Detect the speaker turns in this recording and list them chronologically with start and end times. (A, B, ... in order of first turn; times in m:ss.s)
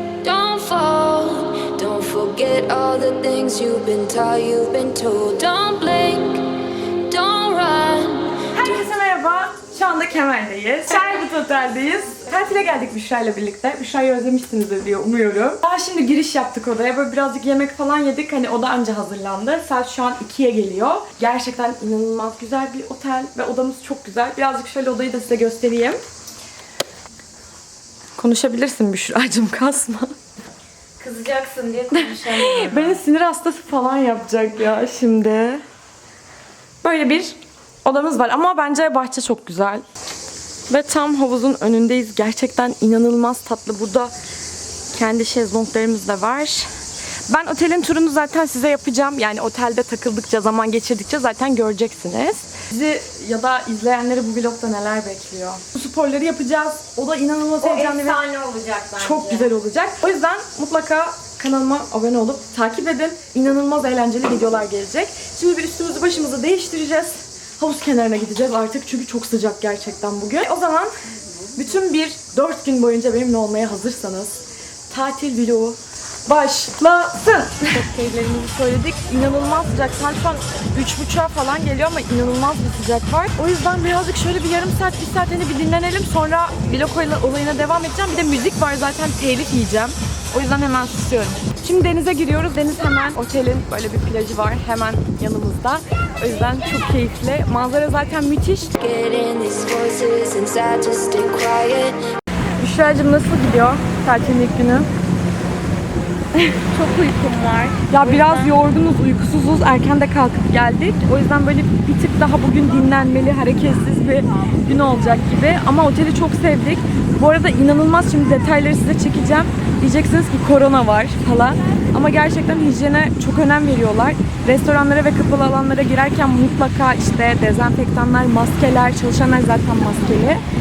0:00.2-0:06.5 A
0:07.1-0:08.8 A
0:08.6-0:26.0 B
0:28.2-0:30.1 B
0:31.0-0:33.0 C
0:31.9-0:35.6 B
0:36.8-0:39.8 B
0:40.7-0:44.1 B
0:44.9-0:46.7 B
0:47.3-0:58.2 B
0:59.0-1:10.9 B
1:11.6-1:38.7 B
1:38.8-1:42.0 A
1:42.6-1:44.9 B
1:47.9-2:10.4 B